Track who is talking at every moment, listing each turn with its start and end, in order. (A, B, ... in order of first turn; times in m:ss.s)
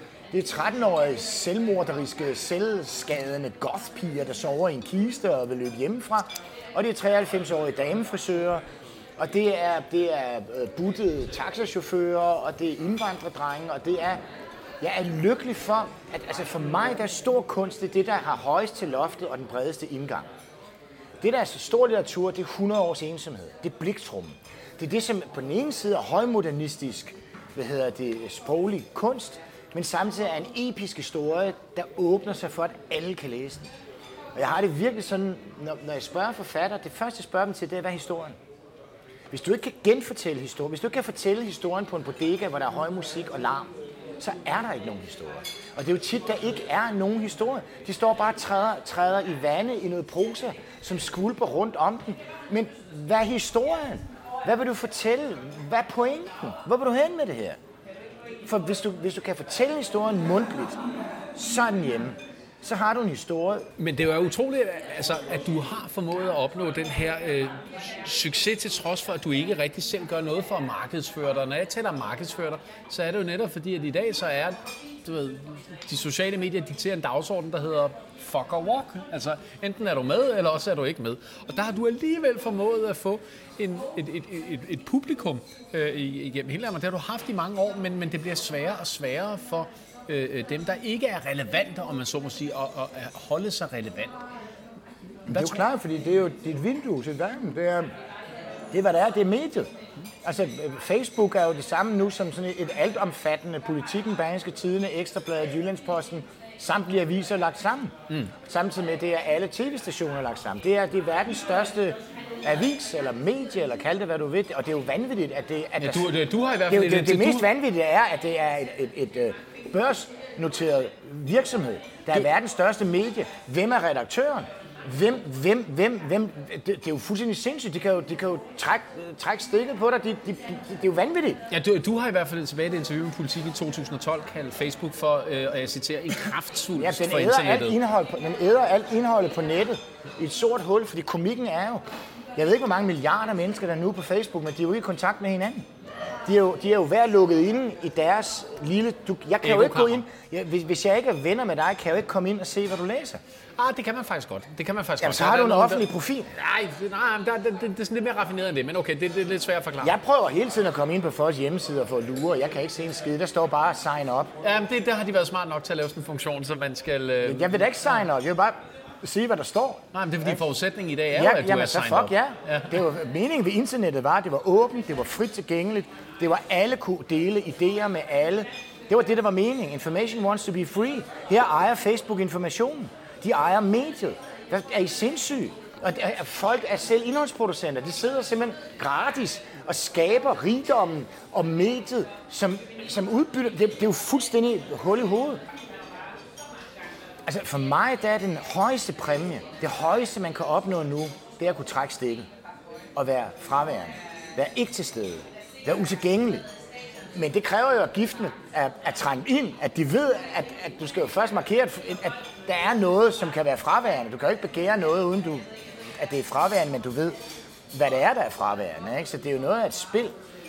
0:00.3-0:08.6 A
0:09.2-0:14.2 A
0:14.8-0:20.3 A
0:21.2-0:33.7 A
0:34.3-0:38.4 A
0:39.3-0:57.6 A
0:58.4-1:00.8 A
1:01.3-1:03.7 A
1:03.8-1:34.2 B
1:35.3-1:37.9 A
1:35.3-1:35.6 B
1:38.7-1:39.7 A
1:40.2-1:56.1 A
1:55.8-1:57.5 B
1:56.7-2:11.4 A
2:11.5-2:17.8 B
2:16.8-2:21.8 A
2:22.4-2:25.6 A
2:26.2-2:33.2 A
2:29.4-2:30.0 B
2:33.6-2:39.9 B
2:35.0-2:36.3 A
2:39.8-2:44.3 A
2:44.4-2:47.6 B
2:47.2-2:50.4 A
2:49.9-2:52.8 B
2:51.1-3:15.4 A
3:17.2-3:22.3 A
3:22.9-3:26.4 A
3:27.1-3:35.4 A
3:36.0-3:37.2 A
3:37.7-3:40.1 A